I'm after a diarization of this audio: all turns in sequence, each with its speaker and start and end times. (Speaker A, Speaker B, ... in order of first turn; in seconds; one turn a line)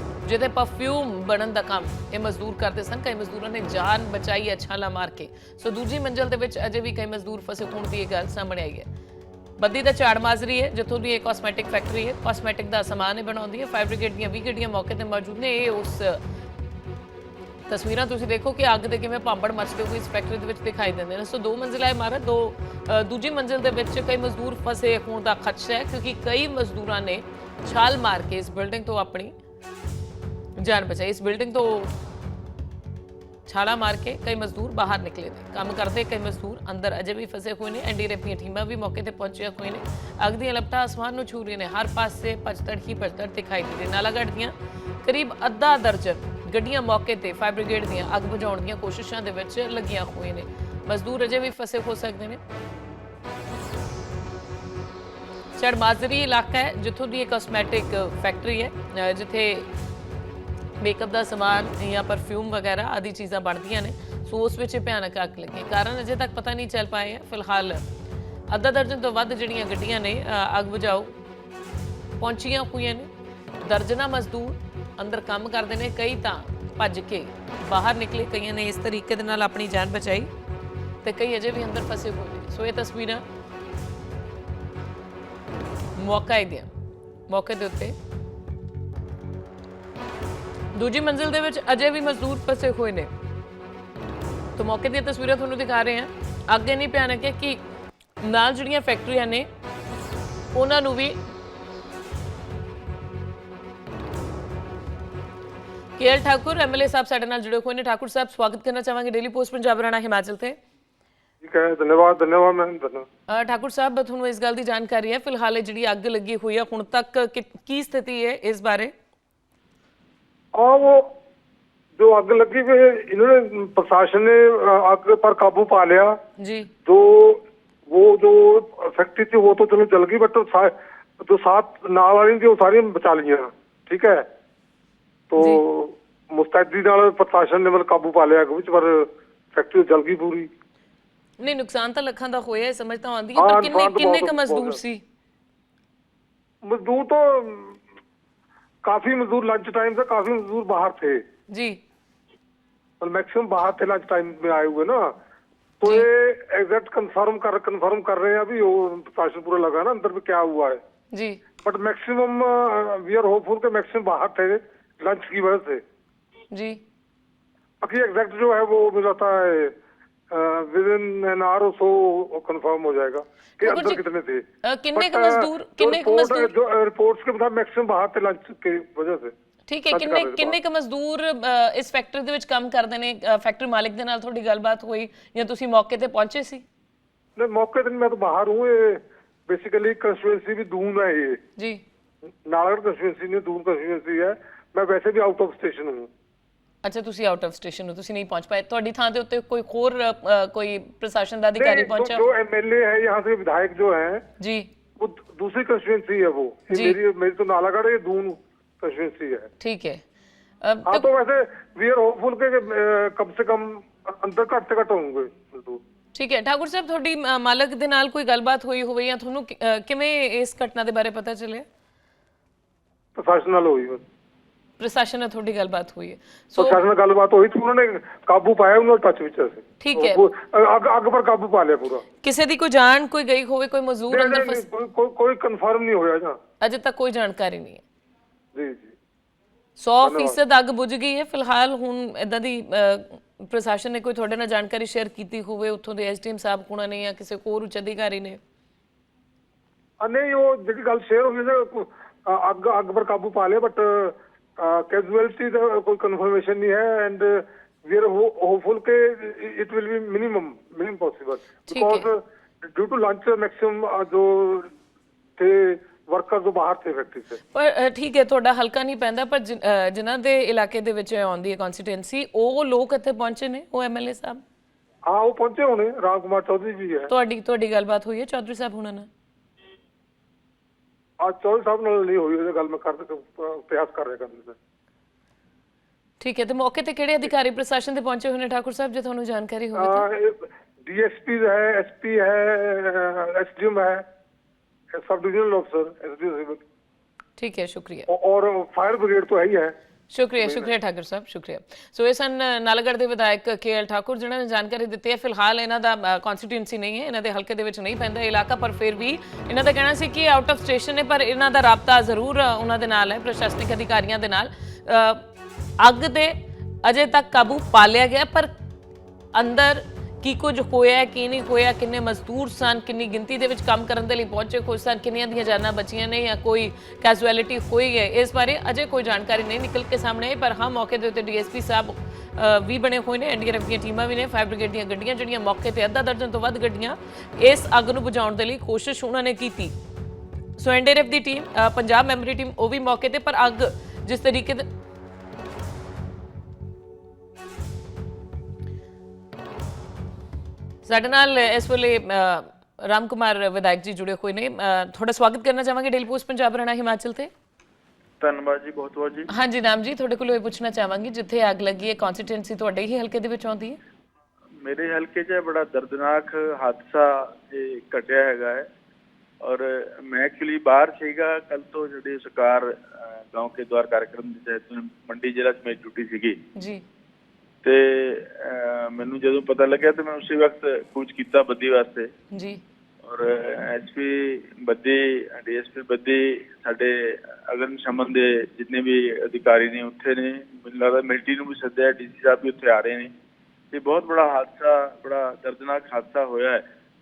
Speaker A: 0.2-8.9
Speaker A: 9.6-16.2
Speaker A: 17.7-29.3
Speaker A: 30.6-31.9
Speaker A: 33.5-52.4
Speaker A: 55.6-59.7
Speaker A: 60.8-67.8
Speaker A: 68.5-71.1
Speaker A: 72.2-73.1
Speaker A: 73.6-80.3
Speaker A: 81.0-83.2
Speaker A: 86.0-86.7
Speaker A: 87.3-88.0
Speaker A: 90.7-93.1
Speaker A: 94.6-97.6
Speaker A: 98.2-99.5
Speaker A: 100.5-101.2
Speaker A: 106.0-110.6
Speaker B: 111.4-113.1
Speaker A: 113.3-118.9
Speaker B: 120.5-121.1
Speaker B: 122.0-126.2
Speaker A: 126.4-126.7
Speaker B: 126.8-134.3
Speaker B: 135.3-140.5
Speaker A: 141.4-145.0
Speaker B: 143.4-144.8
Speaker B: 146.6-147.8
Speaker B: 148.8-151.2
Speaker A: 151.5-151.8
Speaker B: 153.0-155.2
Speaker B: 155.8-160.8
Speaker A: 161.1-161.4
Speaker B: 161.6-165.8
Speaker A: 166.5-166.8
Speaker B: 167.8-169.8
Speaker B: 170.3-179.3
Speaker A: 173.6-174.0
Speaker A: 174.6-176.5
Speaker A: 179.7-186.6
Speaker B: 179.9-180.6
Speaker B: 187.4-191.4
Speaker B: 192.4-196.1
Speaker A: 196.8-202.2
Speaker B: 201.6-204.2
Speaker A: 204.4-204.7
Speaker B: 205.0-209.5
Speaker A: 206.7-207.0
Speaker A: 209.6-210.0
Speaker A: 210.6-211.1
Speaker B: 210.9-215.8
Speaker A: 216.1-221.7
Speaker B: 223.2-224.0
Speaker A: 224.8-226.8
Speaker B: 226.6-232.0
Speaker A: 229.8-230.2
Speaker A: 232.2-234.6
Speaker B: 234.1-236.4
Speaker A: 236.6-237.8
Speaker B: 238.6-238.9
Speaker A: 239.8-248.4
Speaker B: 240.0-240.4
Speaker B: 250.0-264.7
Speaker A: 261.7-262.1
Speaker B: 265.4-267.4
Speaker A: 267.5-274.4
Speaker B: 275.1-277.1
Speaker A: 277.1-279.1
Speaker B: 281.2-284.6
Speaker A: 286.2-290.0
Speaker B: 289.8-294.0
Speaker B: 294.9-296.6
Speaker A: 297.4-298.1
Speaker B: 298.1-299.8
Speaker A: 300.1-315.2
Speaker B: 300.4-300.7
Speaker A: 315.8-318.5
Speaker A: 319.3-339.7
Speaker A: 340.6-344.6
Speaker A: 350.8-357.3
Speaker C: 358.2-359.3
Speaker A: 359.3-363.8
Speaker C: 364.6-368.7
Speaker C: 369.4-376.4
Speaker A: 376.6-376.8
Speaker C: 377.6-382.1
Speaker A: 382.3-382.6
Speaker C: 383.0-393.1
Speaker C: 393.7-396.6